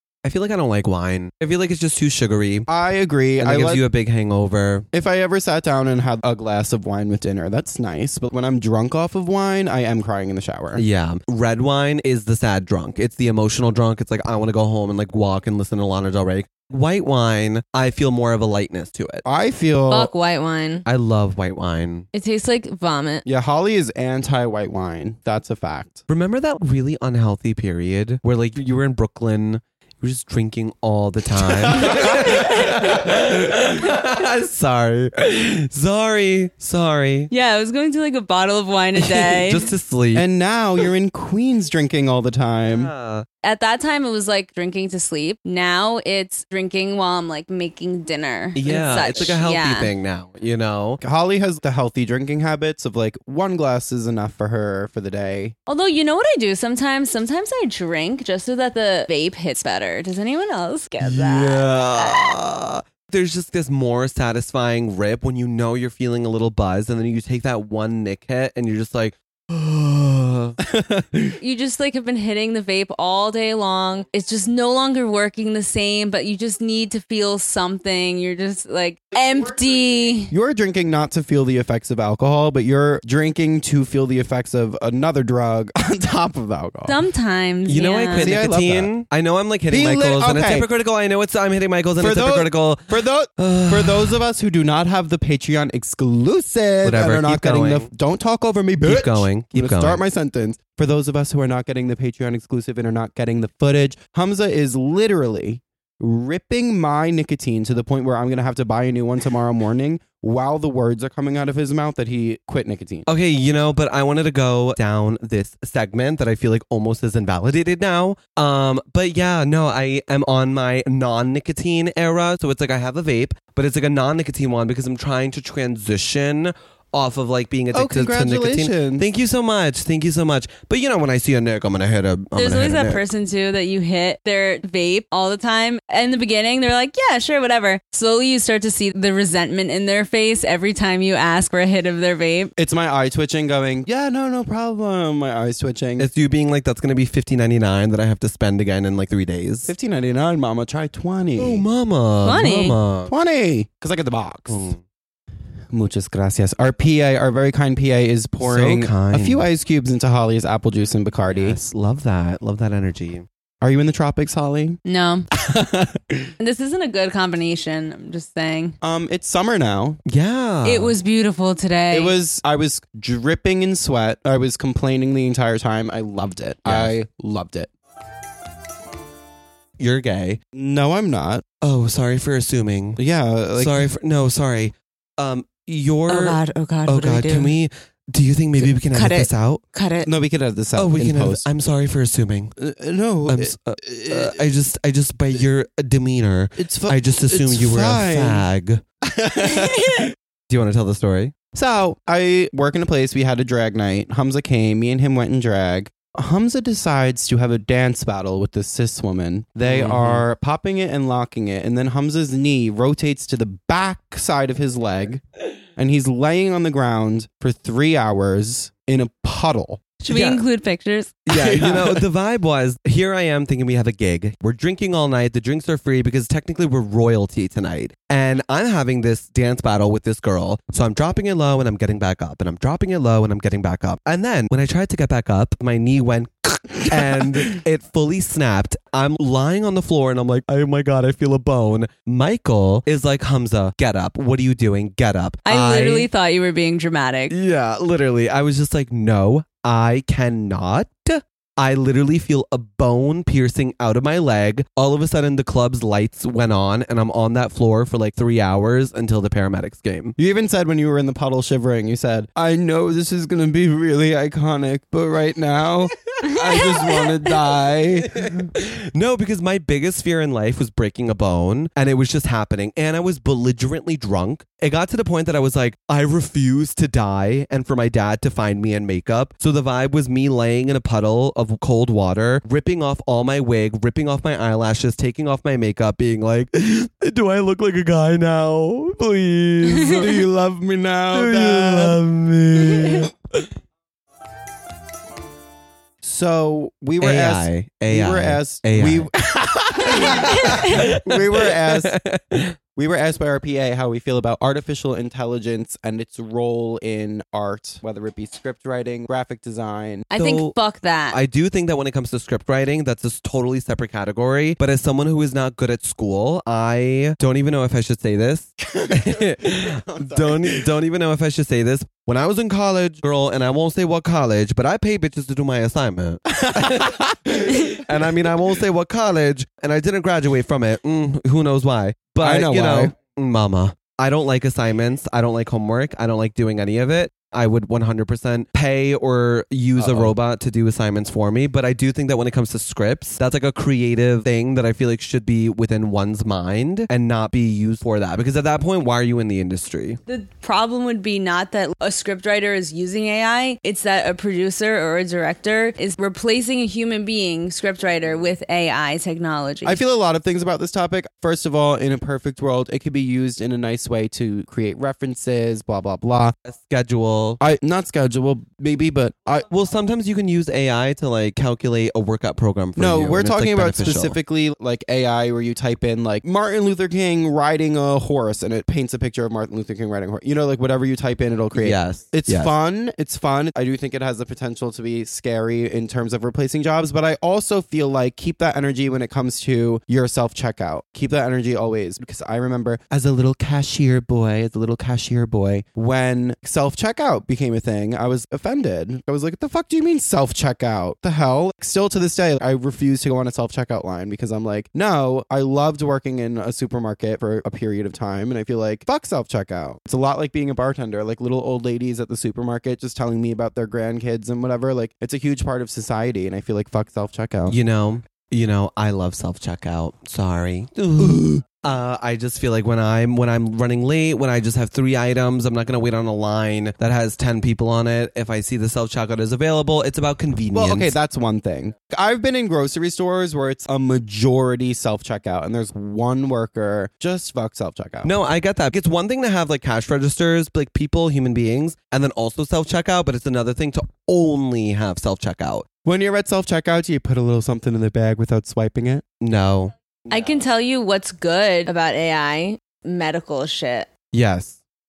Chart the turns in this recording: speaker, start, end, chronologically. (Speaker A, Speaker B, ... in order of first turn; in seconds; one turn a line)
Speaker A: 0.2-2.7
Speaker B: 2.7-3.8
Speaker A: 3.4-4.8
Speaker B: 4.9-10.8
Speaker A: 10.8-19.2
Speaker B: 19.2-20.1
Speaker C: 19.9-20.8
Speaker A: 20.9-22.1
Speaker C: 22.1-23.2
Speaker B: 23.2-26.0
Speaker A: 26.1-37.3
Speaker B: 31.4-32.4
Speaker C: 31.9-32.9
Speaker C: 37.3-39.7
Speaker A: 39.0-40.2
Speaker B: 40.1-42.9
Speaker A: 42.7-43.2
Speaker C: 43.4-49.9
Speaker A: 48.5-51.0
Speaker B: 51.0-55.5
Speaker C: 55.7-62.3
Speaker A: 61.0-70.5
Speaker B: 70.6-71.4
Speaker C: 71.4-80.3
Speaker B: 79.4-87.0
Speaker C: 86.8-88.3
Speaker A: 87.7-94.2
Speaker B: 88.2-88.9
Speaker B: 89.7-90.7
Speaker B: 92.0-113.0
Speaker A: 96.8-97.9
Speaker A: 98.8-100.0
Speaker A: 113.0-133.0
Speaker B: 127.7-129.1
Speaker C: 132.3-142.5
Speaker B: 142.6-146.1
Speaker A: 146.0-149.7
Speaker B: 149.7-151.6
Speaker A: 151.4-153.1
Speaker C: 152.2-152.8
Speaker B: 153.1-154.7
Speaker A: 154.5-154.8
Speaker B: 155.7-161.6
Speaker A: 158.4-159.4
Speaker A: 161.3-163.2
Speaker B: 163.6-164.8
Speaker C: 164.8-165.3
Speaker B: 165.3-166.3
Speaker C: 166.4-168.7
Speaker B: 168.8-170.0
Speaker A: 170.1-170.9
Speaker C: 170.6-172.1
Speaker B: 171.9-177.7
Speaker A: 176.7-176.9
Speaker A: 179.8-180.4
Speaker B: 180.5-181.4
Speaker A: 181.6-183.0
Speaker B: 183.0-183.9
Speaker A: 183.5-189.6
Speaker C: 186.1-187.5
Speaker C: 188.6-190.1
Speaker B: 190.0-191.4
Speaker A: 190.8-192.5
Speaker B: 192.6-194.4
Speaker A: 193.3-198.8
Speaker B: 196.6-198.4
Speaker B: 199.0-200.1
Speaker C: 199.4-200.1
Speaker A: 200.5-201.3
Speaker B: 201.5-219.8
Speaker A: 209.6-210.2
Speaker C: 220.0-221.2
Speaker A: 220.1-220.4
Speaker A: 221.3-246.1
Speaker B: 221.3-222.1
Speaker B: 236.9-237.5
Speaker C: 245.4-247.3
Speaker A: 247.3-260.1
Speaker B: 260.2-268.5
Speaker C: 266.2-267.2
Speaker A: 268.1-290.1
Speaker B: 289.8-292.0
Speaker A: 291.1-293.5
Speaker B: 296.0-301.9
Speaker A: 297.0-299.1
Speaker A: 299.9-302.6
Speaker C: 300.3-300.8
Speaker B: 302.8-310.1
Speaker C: 310.1-311.2
Speaker A: 310.2-310.5
Speaker A: 311.1-350.0
Speaker B: 318.6-320.7
Speaker B: 326.3-328.5
Speaker B: 332.2-332.9
Speaker B: 339.8-340.1
Speaker C: 350.1-359.8
Speaker B: 359.6-366.3
Speaker A: 366.4-367.4
Speaker B: 367.4-369.5
Speaker A: 369.5-374.2
Speaker B: 372.8-417.6
Speaker A: 381.6-382.5
Speaker A: 417.5-430.9
Speaker B: 421.0-421.4
Speaker B: 430.5-438.1
Speaker A: 438.0-445.7
Speaker B: 445.8-449.0
Speaker A: 449.2-450.3
Speaker C: 450.1-453.9
Speaker A: 454.1-454.6